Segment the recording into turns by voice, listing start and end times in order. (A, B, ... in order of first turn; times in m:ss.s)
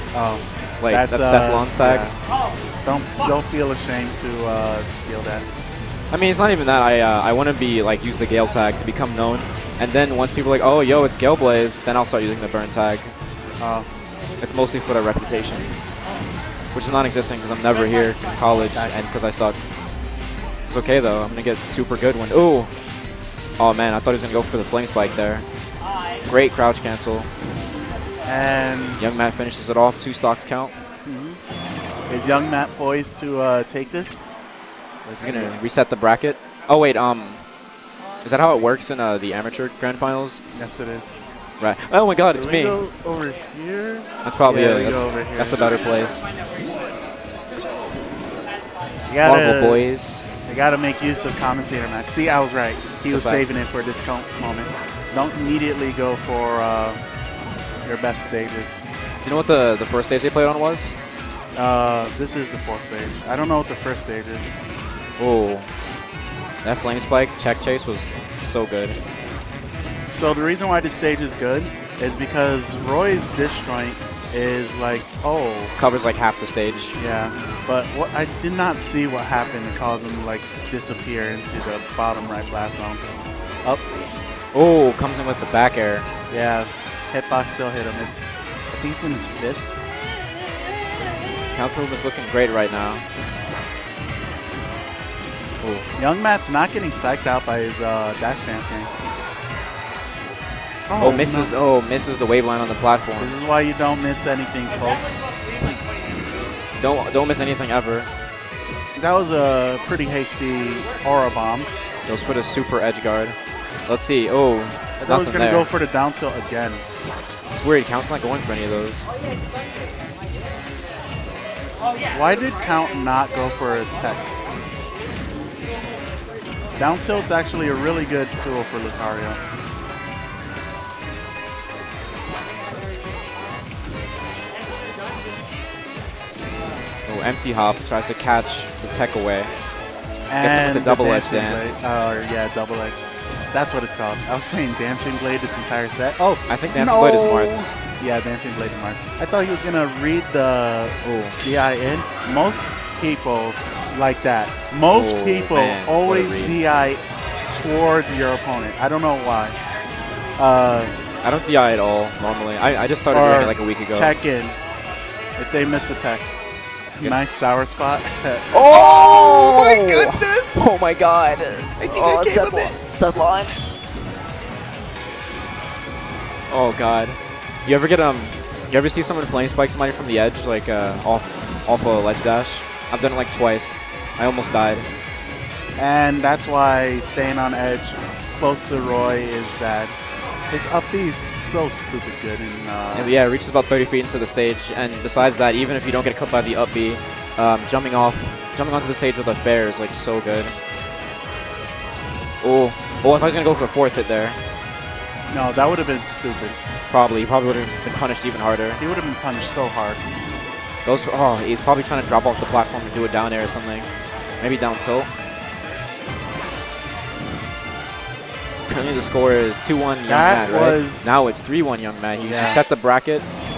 0:00.1-0:02.2 A
0:00.8-0:02.1 B
0:02.8-0:05.5 A
0:06.1-0:13.1 B
0:13.6-0:13.9 A
0:14.4-0:15.7 B
0:16.7-0:19.6 B
0:18.7-0:19.0 A
0:20.7-0:22.7 B
0:23.6-0:25.5 B
0:26.2-0:27.3 B
0:28.2-0:29.0 A
0:29.0-0:30.7 B
0:31.0-0:31.4 A
0:32.1-0:34.3 A
0:35.0-0:35.6 A
0:35.2-0:37.4 B
0:38.2-0:40.4 B
0:40.5-0:41.2 A
0:41.6-0:42.8 B
0:42.3-0:45.6 A
0:44.2-0:46.3 B
0:49.0-0:50.3 B
0:49.1-0:49.8 A
0:50.5-0:57.0 A
0:53.1-0:53.5 B
0:57.8-0:58.8 A
0:59.2-1:01.0 B
1:01.6-1:04.6 A
1:05.2-1:05.7 B
1:06.6-1:09.0 B
1:10.1-1:15.7 A
1:15.8-1:17.0 B
1:17.0-1:23.1 A
1:24.5-1:26.1 B
1:26.3-1:29.8 A
1:31.6-1:33.0 B
1:35.6-1:35.9 B
1:36.0-1:38.9 A
1:40.9-1:41.6 A
1:41.0-1:43.4 B
1:43.2-1:45.2 A
1:46.8-1:48.1 B
1:49.0-1:51.7 A
1:52.1-1:55.7 B
1:55.0-1:56.9 A
1:57.5-1:59.1 B
2:02.1-2:04.3 A
2:06.8-2:09.4 A
2:17.1-2:19.5 B
2:20.3-2:39.6 A
2:20.4-2:21.9 B
2:26.5-2:27.8 B
2:31.0-2:31.4 B
2:34.9-2:36.6 B
2:40.4-2:40.9 A
2:41.2-2:44.2 B
2:43.1-2:44.6 A
2:45.4-2:46.3 A
2:47.0-2:47.4 B
2:47.0-2:50.7 A
2:48.5-2:53.6 B
2:51.8-2:52.8 A
2:56.5-3:04.9 B
3:05.8-3:10.0 A
3:10.5-3:13.2 A
3:13.0-3:20.5 B
3:22.4-3:24.4 B
3:25.3-3:26.6 A
3:26.9-3:28.8 B
3:28.8-3:30.0 A
3:30.8-3:33.9 B
3:34.4-3:35.1 B
3:38.7-3:43.2 B
3:40.1-3:41.2 A
3:42.2-3:42.6 A